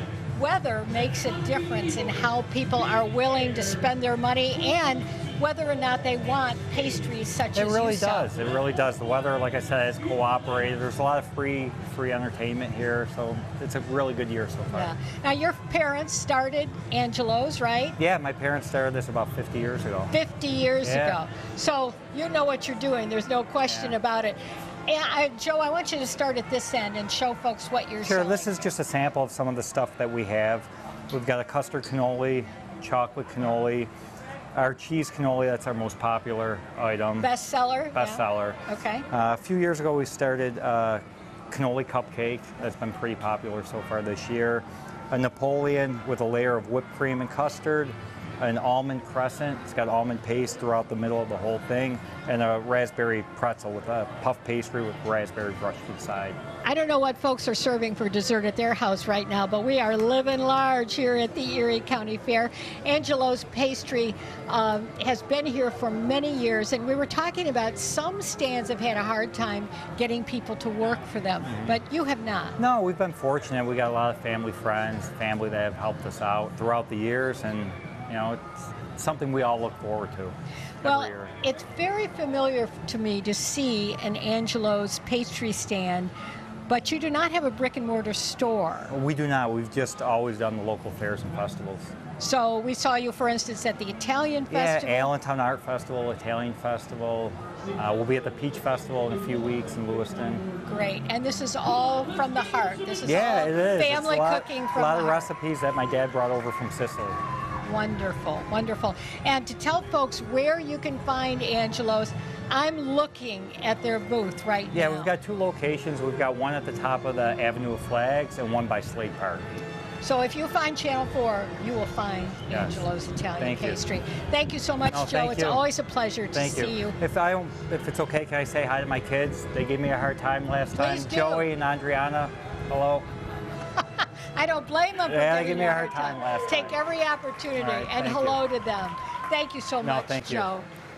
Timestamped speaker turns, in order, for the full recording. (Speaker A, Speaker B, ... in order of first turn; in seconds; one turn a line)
Speaker A: 0.3-8.3
Speaker B: 7.5-14.9
Speaker A: 14.7-18.0
Speaker B: 18.0-20.1
Speaker A: 20.1-28.5
Speaker B: 20.8-21.2
Speaker B: 23.6-24.0
Speaker B: 28.0-33.9
Speaker B: 34.5-37.3
Speaker A: 37.2-39.0
Speaker B: 38.0-38.6
Speaker B: 39.1-56.4
Speaker A: 56.6-72.6
Speaker B: 71.4-71.8
Speaker B: 72.6-81.3
Speaker A: 80.8-86.1
Speaker A: 86.7-88.9
Speaker B: 88.9-91.9
Speaker A: 92.2-95.1
Speaker B: 94.5-100.4
Speaker A: 100.6-105.3
Speaker B: 103.0-107.2
Speaker A: 107.6-115.1
Speaker B: 114.7-119.6
Speaker A: 120.0-127.0
Speaker B: 122.5-122.8
Speaker B: 123.4-123.8
Speaker B: 124.9-125.7
Speaker B: 126.3-133.1
Speaker A: 130.7-131.5
Speaker A: 133.8-140.7
Speaker B: 135.1-136.8
Speaker B: 137.6-138.4
Speaker B: 139.8-140.5